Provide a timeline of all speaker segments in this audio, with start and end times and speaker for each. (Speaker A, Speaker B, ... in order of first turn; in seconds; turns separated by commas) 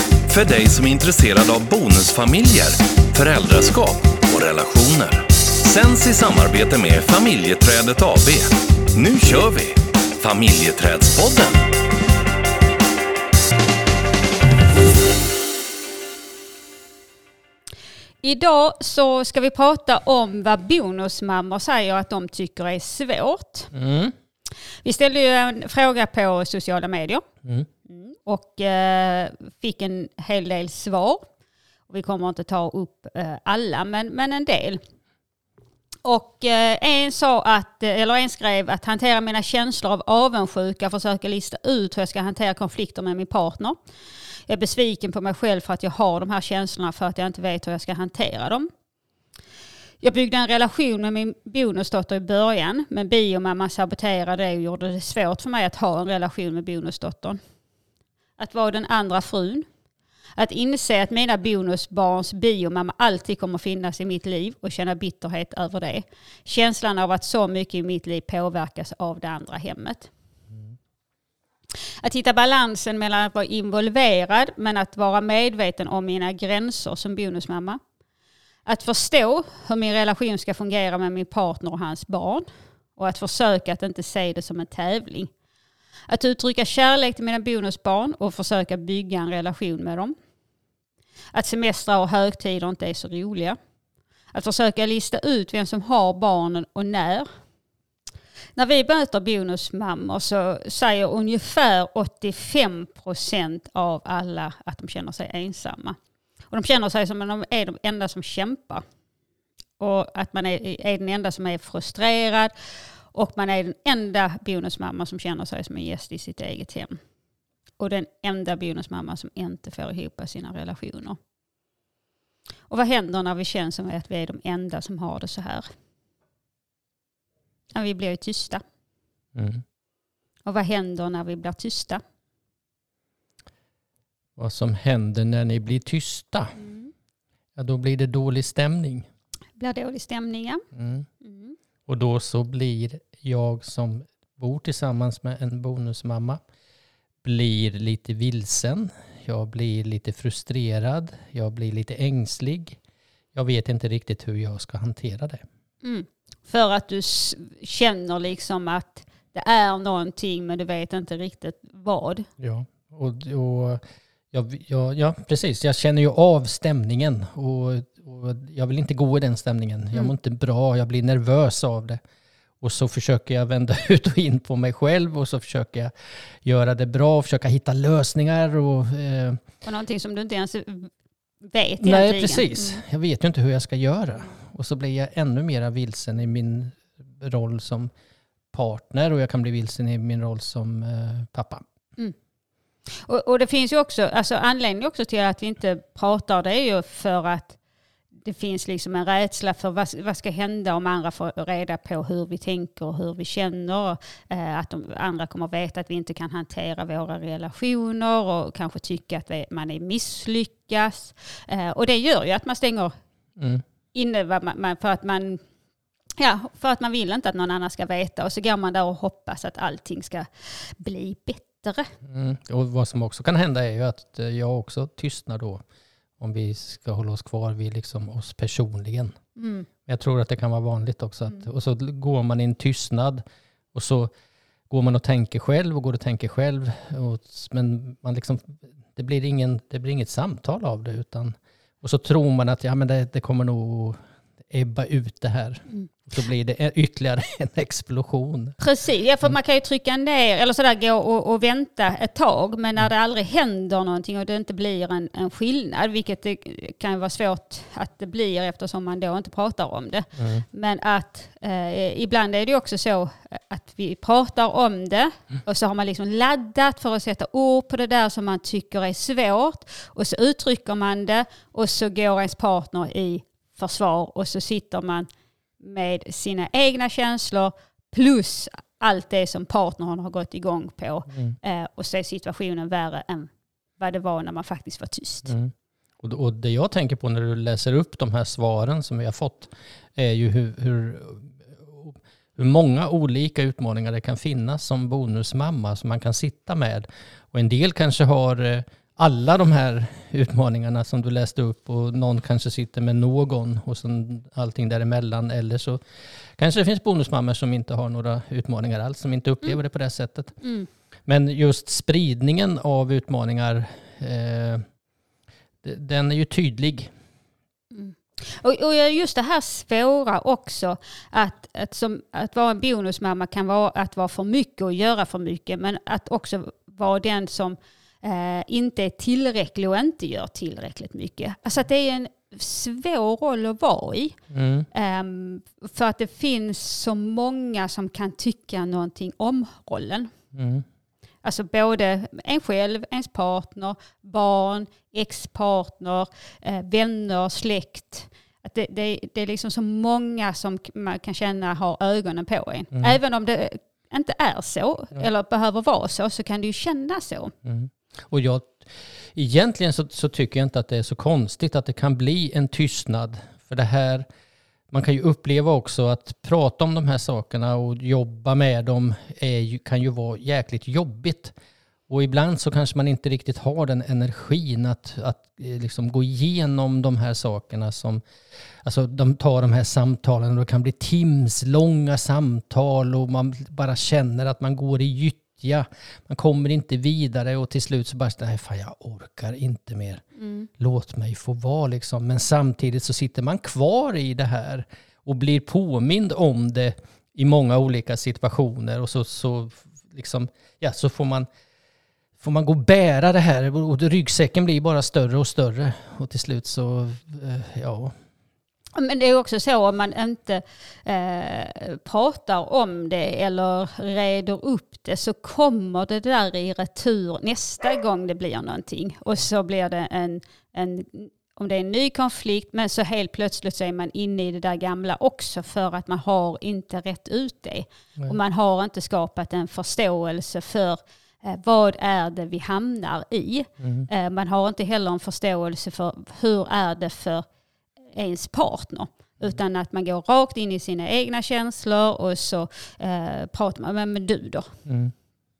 Speaker A: 0.2-11.7, Speaker B: 18.2-23.7, Speaker C: 23.7-24.1, Speaker B: 24.8-27.2, Speaker B: 27.9-31.2, Speaker B: 31.9-34.8, Speaker B: 36.0-43.8, Speaker B: 44.5-48.7, Speaker B: 50.0-57.4, Speaker B: 58.4-59.7, Speaker B: 60.4-70.1, Speaker B: 72.0-77.8, Speaker B: 78.7-85.3, Speaker B: 86.1-90.1, Speaker B: 91.3-93.6, Speaker B: 94.3-97.3, Speaker B: 98.5-106.0, Speaker B: 106.5-108.8, Speaker B: 109.8-112.5, Speaker B: 113.1-117.0, Speaker B: 117.8-121.2, Speaker B: 122.7-125.7, Speaker B: 127.7-128.6, Speaker C: 129.3-129.6, Speaker B: 130.4-132.0, Speaker C: 134.4-136.6, Speaker B: 136.6-136.9, Speaker C: 137.6-139.1, Speaker B: 139.6-140.6, Speaker C: 140.7-141.1, Speaker B: 141.2-141.5, Speaker C: 141.9-146.4, Speaker C: 147.2-152.8, Speaker C: 153.3-155.4, Speaker B: 155.8-162.3, Speaker C: 162.4-172.0, Speaker C: 172.6-175.9, Speaker C: 176.4-179.4, Speaker B: 179.6-180.9, Speaker B: 181.4-182.8, Speaker C: 181.8-187.9, Speaker C: 188.5-191.6, Speaker B: 193.0-197.6, Speaker B: 198.2-212.9, Speaker C: 213.4-213.6, Speaker B: 213.9-215.4, Speaker B: 216.2-221.9, Speaker C: 222.0-225.6, Speaker C: 226.2-229.2, Speaker B: 229.4-229.7, Speaker C: 229.8-234.1, Speaker C: 234.7-244.0, Speaker C: 244.5-248.6, Speaker B: 248.6-275.1, Speaker C: 260.2-260.4, Speaker B: 275.6-285.3, Speaker C: 281.1-281.4, Speaker C: 285.2-305.8, Speaker C: 306.4-310.4, Speaker B: 310.4-310.7, Speaker C: 311.1-314.6, Speaker C: 315.6-316.9, Speaker B: 317.7-334.2, Speaker C: 334.3-334.7, Speaker B: 334.7-340.1, Speaker C: 340.3-340.6, Speaker B: 341.2-357.3, Speaker C: 357.4-364.1, Speaker C: 364.7-371.3, Speaker C: 371.9-378.0, Speaker C: 378.6-390.0, Speaker B: 390.2-390.5, Speaker C: 390.6-401.3, Speaker C: 402.2-407.9, Speaker B: 408.8-437.2, Speaker C: 433.6-433.9, Speaker B: 437.9-444.6, Speaker C: 444.6-444.9